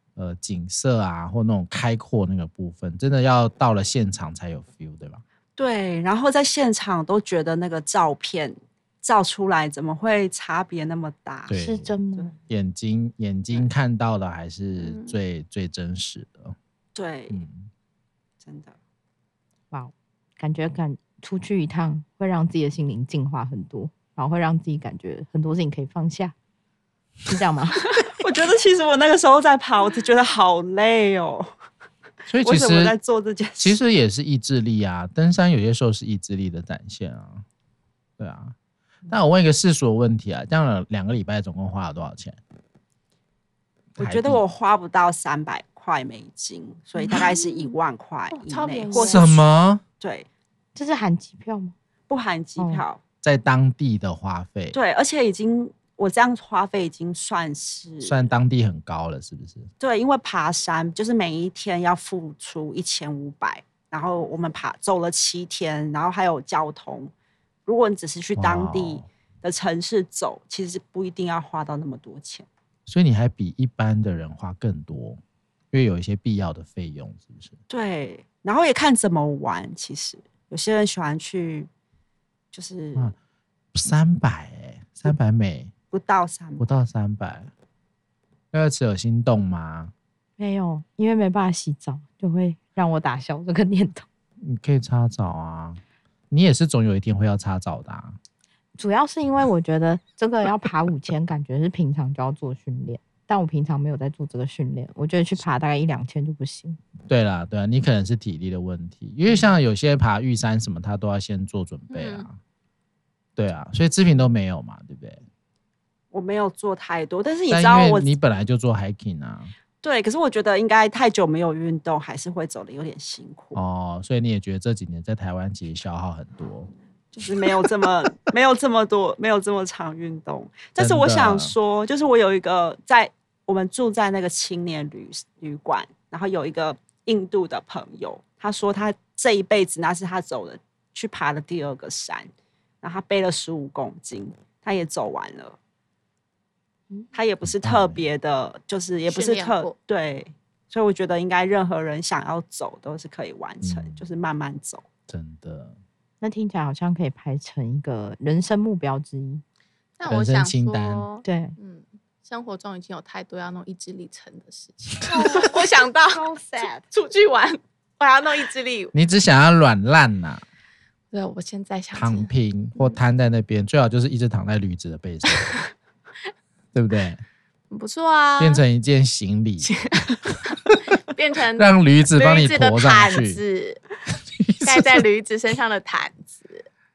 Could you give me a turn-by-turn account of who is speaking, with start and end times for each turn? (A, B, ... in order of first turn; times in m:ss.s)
0:00.2-0:05.2 A
0:05.6-0:11.6 B
0:11.5-0:11.9 A
0:11.5-0:12.3 C
0:12.5-0:16.6 A
0:14.8-0:15.2 D
0:17.0-0:17.4 B
0:17.3-0:17.7 A
0:18.4-0:18.8 B
0:19.7-0:26.4 C
0:27.3-0:27.9 C
0:28.0-0:31.5 B
0:32.3-0:33.0 A
0:32.4-0:33.8 B
0:33.6-0:37.4 A
0:38.2-0:38.6 A
0:39.1-0:42.4 A
0:44.0-0:44.4 A
0:44.0-0:49.4 B
0:47.0-0:47.8 D
0:48.3-0:49.4 D
0:48.9-0:49.8 A
0:50.0-0:50.3 B
0:50.8-0:51.7 C
0:52.1-0:53.0 B
0:52.6-0:52.8 C
0:53.2-0:54.8 A
0:54.7-0:58.3 B
0:58.0-0:59.7 A
0:59.8-1:07.1 B
1:07.7-1:12.5 B
1:08.4-1:09.1 A
1:12.9-1:15.2 A
1:15.7-1:17.6 A
1:17.7-1:21.7 B
1:22.5-1:23.1 B
1:23.7-1:25.7 A
1:25.9-1:26.7 B
1:26.6-1:27.5 A
1:28.5-1:29.9 A
1:30.4-1:34.1 C
1:34.4-1:38.2 A
1:38.8-1:46.8 C
1:47.1-1:52.4 A
1:51.9-1:52.3 D
1:53.4-1:55.2 A
1:56.1-1:58.1 B
1:57.5-1:59.5 A
1:59.8-2:03.6 B
2:03.5-2:06.7 A
2:07.1-2:22.3 B
2:10.8-2:11.5 A
2:22.8-2:25.6 B
2:27.1-2:34.9 B
2:27.4-2:28.0 A
2:29.1-2:29.8 D
2:33.6-2:34.0 A
2:35.1-2:35.8 A
2:36.2-2:39.4 C
2:40.0-2:48.9 D
2:40.0-2:41.1 A
2:41.2-2:41.6 C
2:45.1-2:46.8 B
2:48.9-2:50.4 A
2:51.1-2:53.0 D
2:52.0-2:55.6 A
2:56.7-2:57.2 A
2:57.7-2:58.6 D
2:58.4-2:59.8 A
2:59.6-3:03.8 D
3:01.6-3:03.4 A
3:04.4-3:05.0 A
3:04.6-3:06.7 D